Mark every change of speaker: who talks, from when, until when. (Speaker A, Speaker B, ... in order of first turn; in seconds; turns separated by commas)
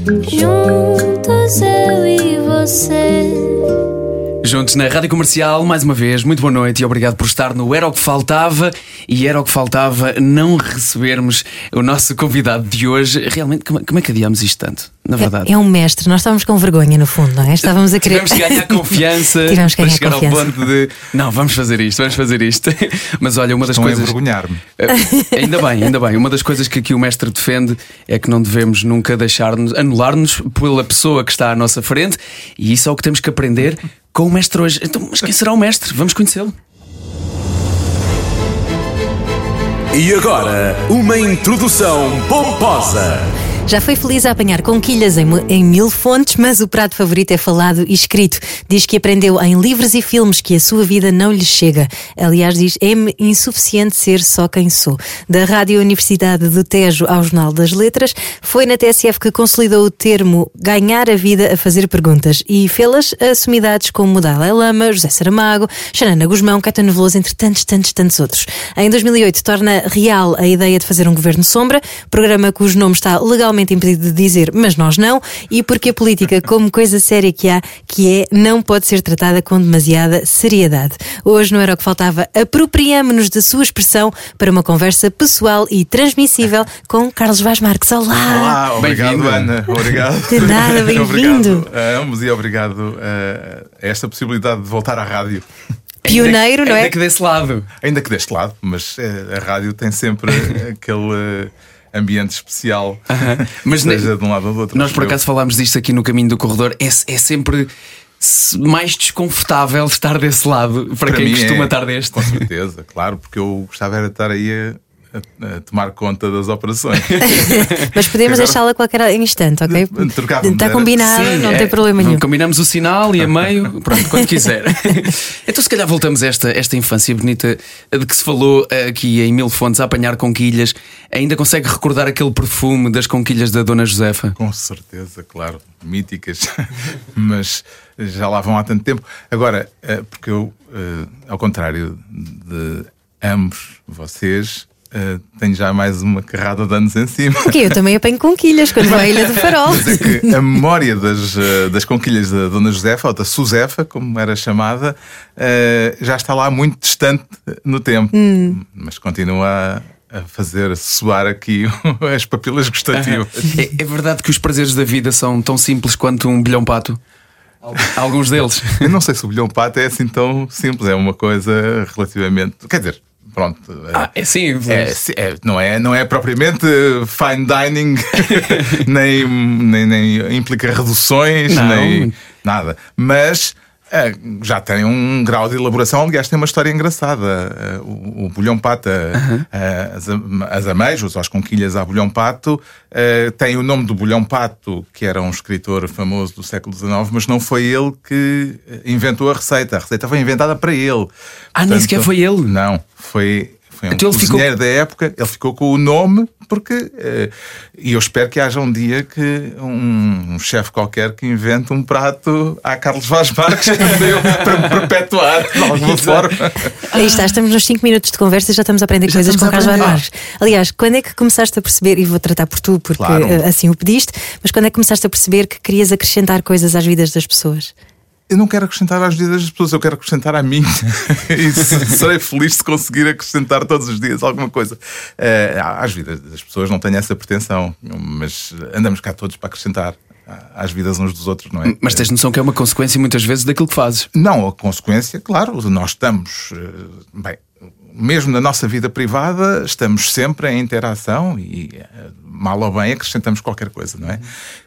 Speaker A: 0.2-3.9, Speaker B: 4.4-15.5, Speaker C: 15.2-20.7, Speaker B: 17.9-24.2, Speaker D: 23.6-24.6, Speaker B: 24.8-36.5, Speaker C: 25.0-25.3, Speaker E: 39.9-43.3, Speaker C: 43.7-88.6, Speaker D: 88.3-95.5, Speaker B: 88.8-90.0, Speaker C: 90.3-91.7, Speaker C: 96.0-97.0, Speaker B: 96.0-97.7, Speaker D: 97.8-105.2, Speaker B: 103.1-104.1, Speaker B: 104.7-112.4, Speaker D: 111.1-118.6, Speaker B: 117.1-117.9, Speaker C: 117.3-122.2, Speaker D: 119.7-121.1, Speaker B: 121.0-134.3, Speaker D: 134.4-147.8, Speaker C: 147.4-150.4, Speaker D: 148.9-163.6, Speaker C: 158.1-158.6, Speaker B: 162.9-167.0, Speaker B: 167.7-168.9, Speaker D: 168.8-174.1, Speaker B: 173.9-174.9, Speaker D: 174.7-201.1, Speaker B: 178.3-178.8, Speaker B: 181.5-182.1, Speaker B: 189.2-189.5, Speaker B: 201.6-202.5, Speaker D: 201.7-216.8, Speaker B: 203.9-204.5, Speaker B: 213.7-214.8, Speaker B: 215.5-216.3, Speaker B: 216.8-217.3, Speaker C: 216.9-227.7, Speaker B: 219.1-220.0, Speaker D: 219.3-220.0, Speaker D: 223.0-223.4, Speaker D: 228.3-242.1, Speaker B: 241.7-244.1, Speaker D: 244.1-254.3